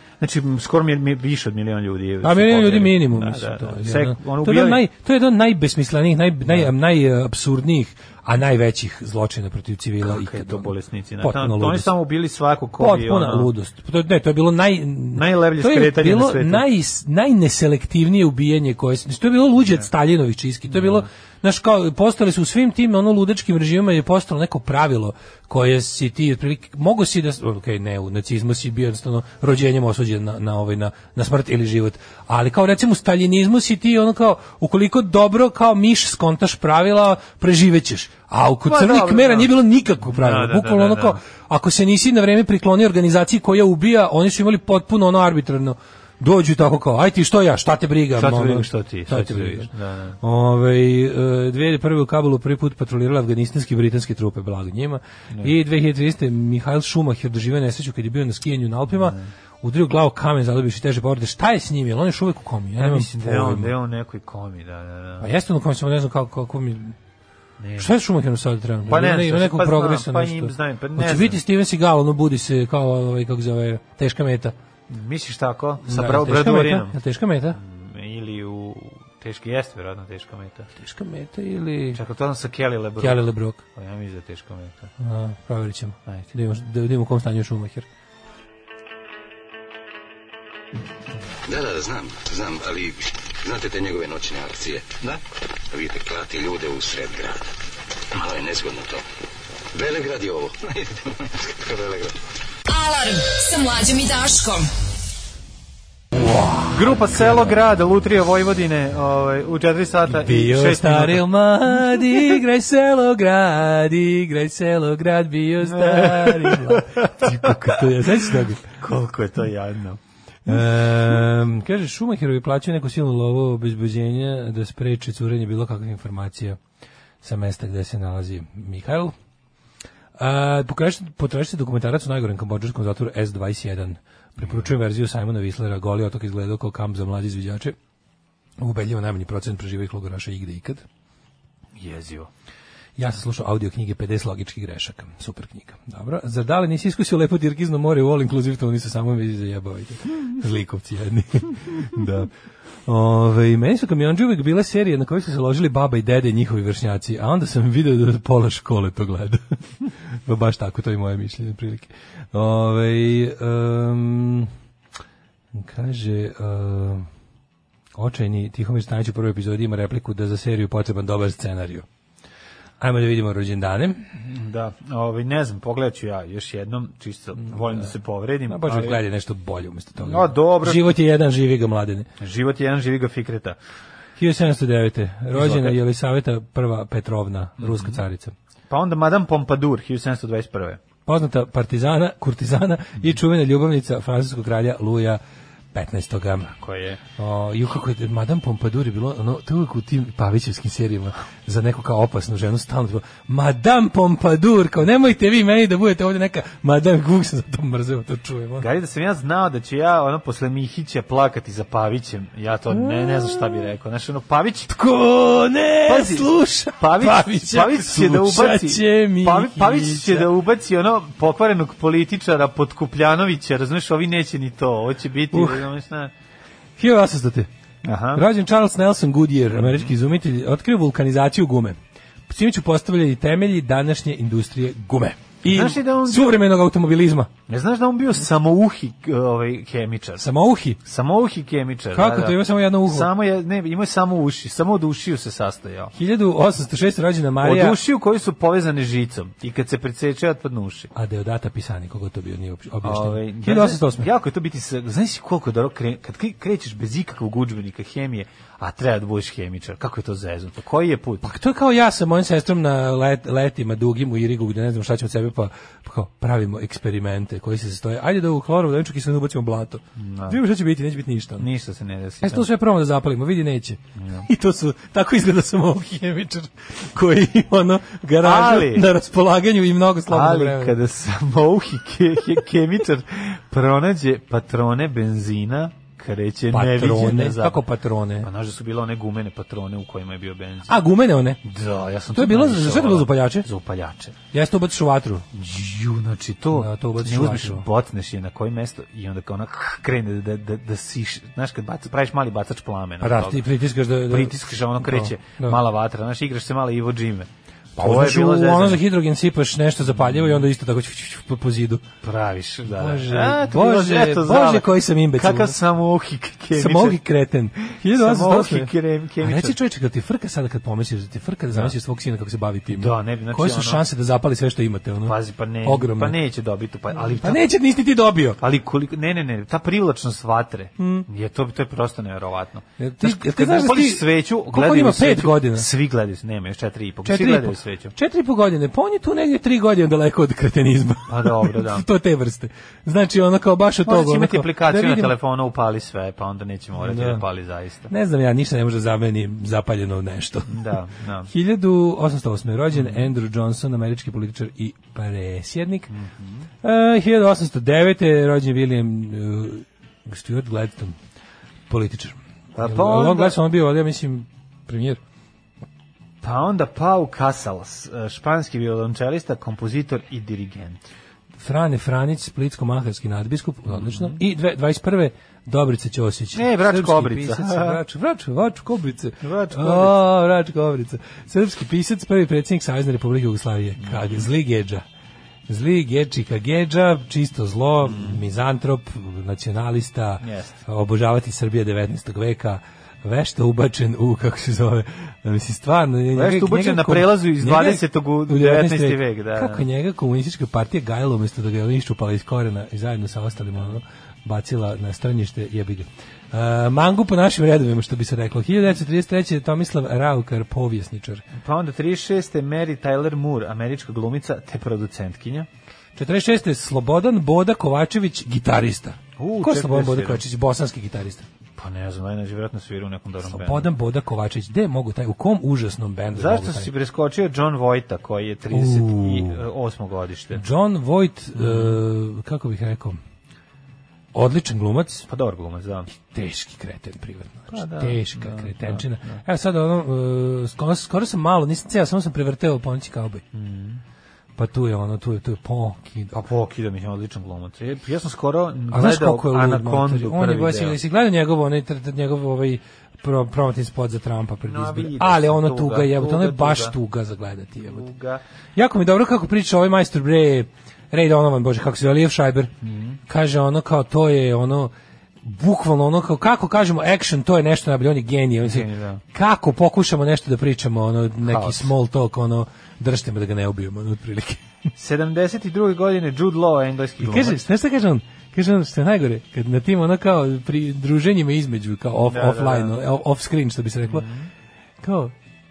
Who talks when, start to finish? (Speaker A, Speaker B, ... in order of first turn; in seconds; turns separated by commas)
Speaker A: 0.2-4.8, Speaker B: 2.2-10.7, Speaker A: 10.0-13.5, Speaker B: 11.2-11.9, Speaker B: 12.8-49.7, Speaker A: 15.1-16.6, Speaker A: 20.7-21.1, Speaker A: 38.6-39.5, Speaker A: 40.1-41.2, Speaker A: 48.1-50.2, Speaker B: 50.2-63.7, Speaker A: 58.9-59.3, Speaker A: 62.8-65.3, Speaker B: 65.2-67.0, Speaker A: 67.6-67.9, Speaker B: 67.8-74.5, Speaker A: 68.9-71.4, Speaker A: 74.9-76.9, Speaker B: 75.8-77.6, Speaker A: 77.5-80.7, Speaker B: 80.8-82.0, Speaker A: 81.9-84.9, Speaker B: 83.0-83.6, Speaker B: 85.0-87.9, Speaker C: 91.4-97.5, Speaker C: 98.1-99.0, Speaker C: 99.7-102.2, Speaker D: 102.7-104.7, Speaker B: 106.1-107.5, Speaker A: 106.7-111.3, Speaker B: 110.1-118.6, Speaker A: 112.0-112.3, Speaker A: 115.6-120.0, Speaker B: 120.5-126.6, Speaker B: 127.2-129.1, Speaker B: 130.2-137.8, Speaker A: 134.4-134.7, Speaker B: 138.6-140.8, Speaker A: 141.8-142.3, Speaker B: 143.0-152.3, Speaker B: 152.9-159.5, Speaker B: 160.3-164.5, Speaker B: 165.5-167.1, Speaker B: 167.9-171.9, Speaker B: 172.8-174.0, Speaker A: 174.2-179.0, Speaker B: 178.5-182.1, Speaker A: 180.0-180.9, Speaker A: 182.2-183.6, Speaker B: 184.2-188.3, Speaker A: 185.3-185.8, Speaker A: 187.6-188.0, Speaker A: 188.7-190.8, Speaker B: 191.1-195.2, Speaker B: 195.7-196.5, Speaker A: 196.6-197.0, Speaker B: 197.2-208.7, Speaker A: 208.6-214.7, Speaker B: 212.7-213.6, Speaker B: 214.7-220.3, Speaker A: 215.9-226.1, Speaker B: 225.3-225.7, Speaker B: 226.8-227.5, Speaker A: 227.8-228.2, Speaker B: 228.1-231.8, Speaker A: 229.5-229.9, Speaker B: 232.3-237.3, Speaker A: 235.4-236.4, Speaker A: 237.5-240.3, Speaker B: 240.2-240.8, Speaker A: 240.8-245.9, Speaker B: 241.9-243.1, Speaker B: 245.9-247.8, Speaker A: 247.4-250.9, Speaker B: 250.9-254.1, Speaker A: 252.8-261.3, Speaker B: 261.2-271.5, Speaker A: 270.0-270.4, Speaker A: 271.4-272.5, Speaker B: 272.2-280.8, Speaker A: 274.0-274.3, Speaker A: 278.2-278.9, Speaker A: 280.1-287.6, Speaker B: 286.5-288.3, Speaker A: 288.2-290.8, Speaker B: 290.7-291.4, Speaker A: 291.4-294.2, Speaker B: 292.1-293.5, Speaker B: 294.3-295.3, Speaker A: 295.3-303.4, Speaker B: 296.5-297.6, Speaker B: 303.0-305.6, Speaker A: 304.1-308.8, Speaker B: 307.8-311.8, Speaker A: 309.9-310.4, Speaker A: 312.0-317.0, Speaker B: 312.7-315.6, Speaker B: 316.6-326.2, Speaker A: 317.9-319.6, Speaker A: 322.7-323.8, Speaker A: 325.0-327.4, Speaker B: 327.1-328.4, Speaker A: 328.4-337.9, Speaker B: 330.8-331.1, Speaker B: 332.8-335.7, Speaker B: 337.1-345.1, Speaker A: 341.1-341.9, Speaker A: 343.9-347.9, Speaker B: 346.8-347.2, Speaker B: 347.9-350.7, Speaker A: 350.5-351.3, Speaker B: 351.3-355.9, Speaker A: 352.7-353.1, Speaker A: 355.9-356.4, Speaker B: 356.6-361.0, Speaker B: 361.7-365.0, Speaker A: 362.6-363.4, Speaker A: 366.2-370.9, Speaker B: 371.4-384.8, Speaker A: 373.7-374.2, Speaker A: 376.3-377.8, Speaker A: 379.2-380.0, Speaker A: 383.8-384.2, Speaker B: 385.5-411.2, Speaker A: 387.8-388.2, Speaker A: 390.2-390.6, Speaker A: 396.1-399.6, Speaker A: 411.4-415.5, Speaker B: 415.9-421.3, Speaker A: 419.2-420.2, Speaker A: 421.6-423.7, Speaker B: 423.3-426.7, Speaker A: 426.1-430.4, Speaker B: 428.5-429.4, Speaker B: 430.3-433.0, Speaker A: 431.4-431.8, Speaker B: 434.1-435.1, Speaker A: 435.1-435.9, Speaker B: 435.9-443.2, Speaker A: 437.5-439.2, Speaker A: 443.3-443.8, Speaker B: 444.4-446.1, Speaker A: 446.1-450.8, Speaker B: 448.7-457.9, Speaker A: 454.4-456.8, Speaker A: 457.6-458.2, Speaker B: 458.6-462.5, Speaker A: 462.6-463.0, Speaker B: 463.1-474.4, Speaker A: 468.4-469.0, Speaker A: 471.2-471.7, Speaker A: 474.8-477.4, Speaker B: 477.0-484.1, Speaker A: 482.0-482.8, Speaker A: 483.9-484.3, Speaker B: 484.8-485.1